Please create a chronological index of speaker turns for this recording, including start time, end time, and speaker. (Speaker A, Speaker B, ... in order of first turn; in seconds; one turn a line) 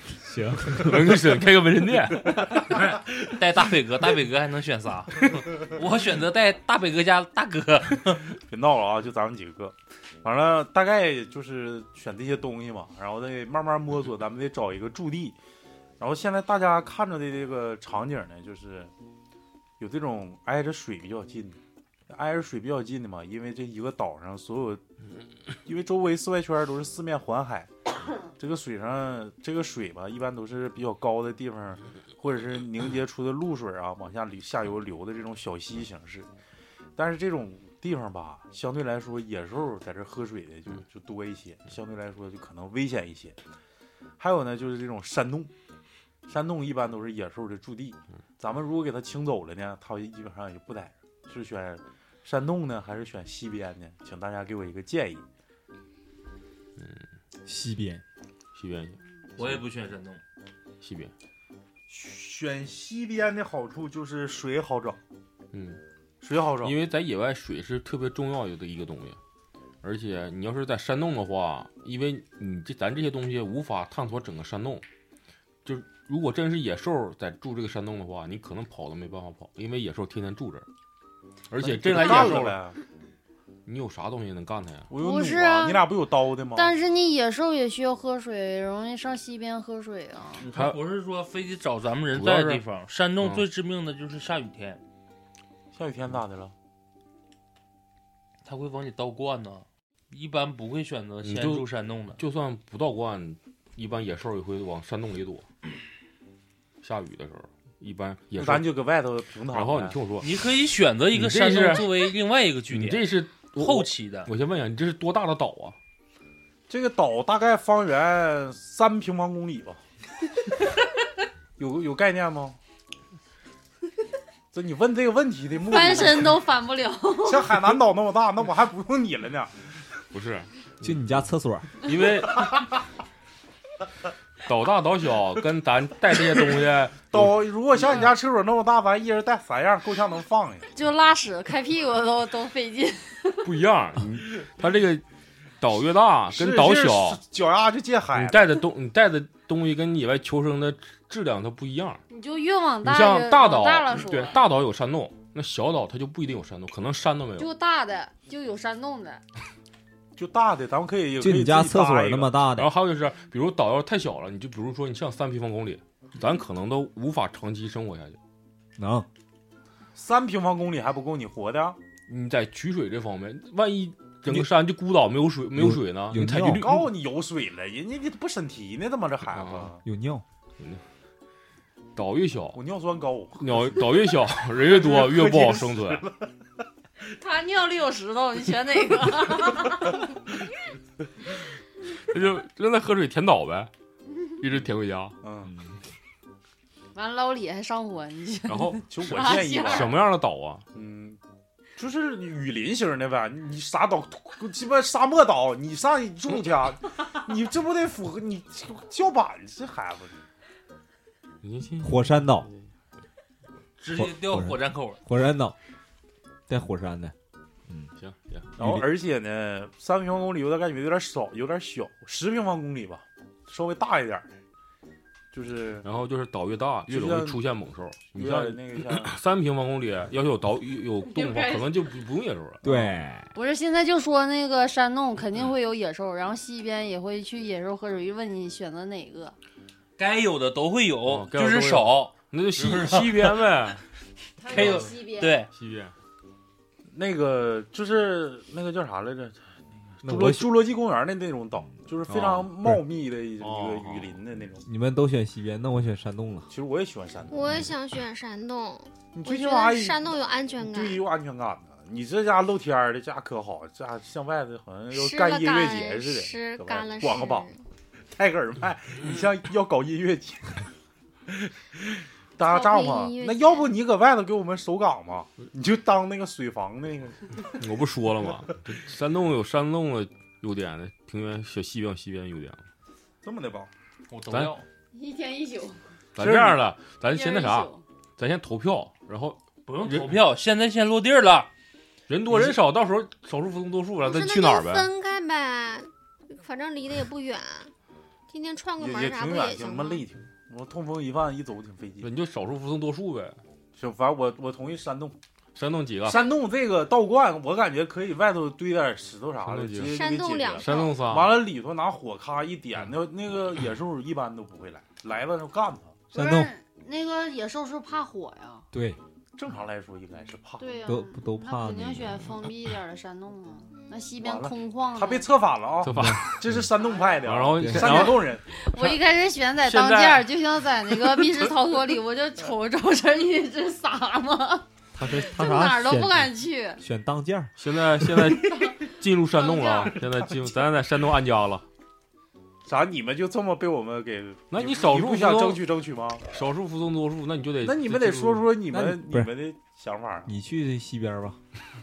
Speaker A: 0.1-1.3
Speaker B: 0.8-2.5
Speaker C: 2.5-8.3
Speaker D: 8.4-15.4
Speaker D: 16.0-18.9
Speaker D: 19.8-24.8
Speaker D: 25.6-27.7
Speaker D: 28.4-36.3
Speaker D: 37.0-43.4
Speaker D: 44.2-45.5
Speaker D: 46.3-55.2
Speaker A: 57.4-58.0
Speaker B: 58.5-59.6
Speaker C: 59.4-60.2
Speaker B: 60.8-61.1
Speaker D: 61.9-65.0
Speaker B: 65.5-65.8
Speaker D: 66.2-66.7
Speaker B: 66.6-69.2
Speaker B: 69.8-74.8
Speaker B: 75.6-80.7
Speaker B: 81.5-82.6
Speaker D: 81.6-82.8
Speaker B: 83.7-84.9
Speaker D: 84.9-86.7
Speaker E: 85.0-85.9
Speaker E: 86.5-90.4
Speaker C: 90.4-94.8
Speaker B: 90.5-90.8
Speaker B: 92.1-92.6
Speaker D: 95.7-96.5
Speaker C: 98.4-102.2
Speaker B: 101.2-105.5
Speaker B: 106.8-108.7
Speaker D: 108.4-110.0
Speaker B: 109.5-110.3
Speaker C: 110.2-114.3
Speaker B: 111.1-112.1
Speaker B: 112.7-115.8
Speaker D: 116.7-119.8
Speaker D: 121.6-122.6
Speaker D: 124.5-126.4
Speaker E: 125.7-127.6
Speaker D: 127.2-129.5
Speaker B: 130.1-131.0
Speaker A: 130.8-131.7
Speaker B: 131.8-132.6
Speaker B: 134.4-137.4
Speaker D: 137.1-140.7
Speaker E: 140.7-143.5
Speaker B: 143.4-145.0
Speaker B: 145.6-147.2
Speaker D: 146.3-148.5
Speaker B: 148.1-152.0
Speaker E: 152.1-154.4
Speaker B: 152.8-157.5
Speaker E: 157.4-159.2
Speaker D: 160.2-162.3
Speaker A: 161.2-162.7
Speaker B: 162.5-168.2
Speaker A: 168.8-169.1
Speaker D: 169.9-171.8
Speaker B: 172.1-176.8
Speaker A: 175.5-176.9
Speaker D: 176.4-179.8
Speaker B: 179.3-179.7
Speaker A: 179.8-180.2
Speaker B: 181.9-182.6
Speaker D: 182.5-186.3
Speaker B: 183.4-186.0
Speaker E: 187.1-189.9
Speaker B: 192.1-193.7
Speaker B: 194.4-195.1
Speaker D: 195.2-195.5
Speaker E: 196.9-199.9
Speaker B: 198.5-200.7
Speaker D: 198.9-200.0
Speaker D: 200.7-201.2
Speaker D: 201.8-210.2
Speaker B: 211.4-212.6
Speaker A: 211.8-212.5
Speaker C: 213.8-215.0
Speaker A: 213.9-215.5
Speaker A: 216.5-217.1
Speaker B: 218.0-218.5
Speaker D: 218.6-224.3
Speaker A: 218.6-218.9
Speaker D: 225.3-225.8
Speaker B: 225.8-232.6
Speaker D: 226.9-227.4
Speaker D: 228.1-229.1
Speaker E: 231.1-231.7
Speaker A: 232.6-233.3
Speaker E: 233.3-239.3
Speaker C: 240.0-243.4
Speaker B: 241.1-243.8
Speaker E: 244.4-245.4
Speaker C: 244.4-245.5
Speaker B: 244.5-244.8
Speaker B: 245.5-245.9
Speaker D: 246.9-249.4
Speaker D: 250.0-254.6
Speaker A: 250.0-250.6
Speaker A: 251.7-252.8
Speaker B: 252.1-252.4
Speaker B: 253.4-254.2
Speaker A: 254.6-256.5
Speaker D: 256.5-257.7
Speaker F: 257.3-261.0
Speaker D: 259.1-267.5
Speaker F: 264.9-267.6
Speaker D: 268.1-270.6
Speaker D: 271.3-277.3
Speaker F: 272.4-273.7
Speaker B: 277.5-282.6
Speaker D: 283.2-283.7
Speaker C: 284.1-284.6
Speaker E: 284.9-285.8
Speaker B: 286.1-290.2
Speaker D: 286.2-286.6
Speaker E: 287.1-287.8
Speaker C: 289.6-291.5
Speaker B: 292.1-294.9
Speaker D: 292.3-292.6
Speaker F: 294.0-297.7
Speaker F: 298.3-300.0
Speaker D: 298.8-302.1
Speaker B: 302.0-303.4
Speaker D: 303.8-305.2
Speaker B: 305.5-306.3
Speaker D: 306.0-315.9
Speaker B: 309.4-309.9
Speaker F: 309.8-310.9
Speaker B: 310.6-311.4
Speaker A: 316.1-316.5
Speaker E: 316.1-318.7
Speaker A: 318.7-319.0
Speaker D: 319.4-320.6
Speaker E: 320.6-325.2
Speaker A: 320.9-322.2
Speaker F: 323.7-324.0
Speaker D: 324.2-328.4
Speaker B: 325.8-326.6
Speaker A: 325.9-326.6
Speaker B: 327.2-328.9
Speaker A: 327.6-328.1
Speaker E: 328.5-334.6
Speaker B: 329.6-330.3
Speaker A: 334.9-337.5
Speaker E: 335.2-336.8
Speaker B: 337.6-341.6
Speaker E: 339.3-339.9
Speaker D: 342.6-346.2
Speaker B: 344.5-345.6
Speaker B: 346.3-348.5
Speaker D: 347.6-350.3
Speaker A: 348.7-349.3
Speaker A: 350.2-351.4